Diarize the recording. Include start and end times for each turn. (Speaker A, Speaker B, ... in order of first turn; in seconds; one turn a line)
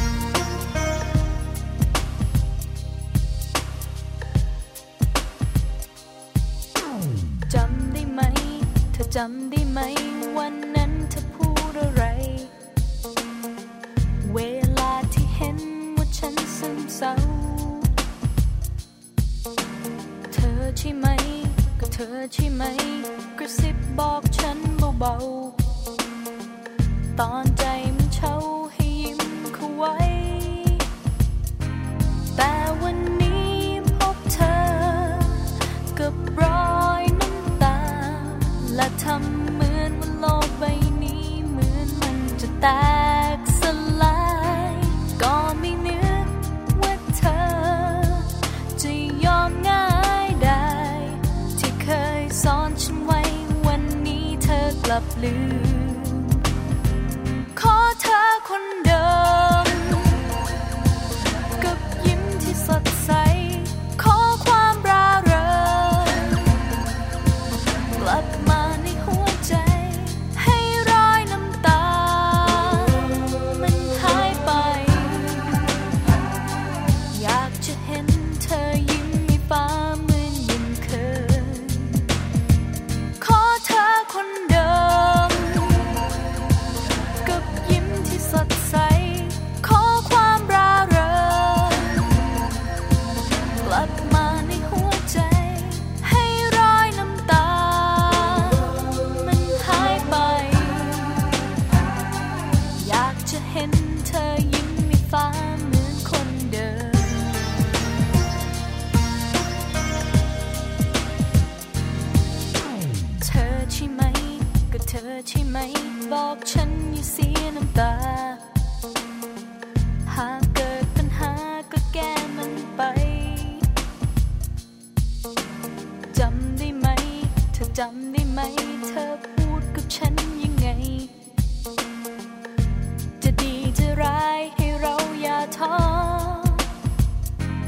Speaker A: 7.5-12.5
Speaker A: 14.2-17.9
Speaker A: 20.3-25.6
Speaker A: 27.2-30.9
Speaker A: 32.4-56.4
Speaker A: 57.5-60.3
Speaker A: 61.6-66.7
Speaker A: 68.0-75.8
Speaker A: 77.1-82.1
Speaker A: 83.2-86.0
Speaker A: 87.2-92.2
Speaker A: 93.6-101.4
Speaker A: 102.8-107.5
Speaker A: 113.2-118.4
Speaker A: 120.1-123.7
Speaker A: 126.1-131.1
Speaker A: 133.2-136.7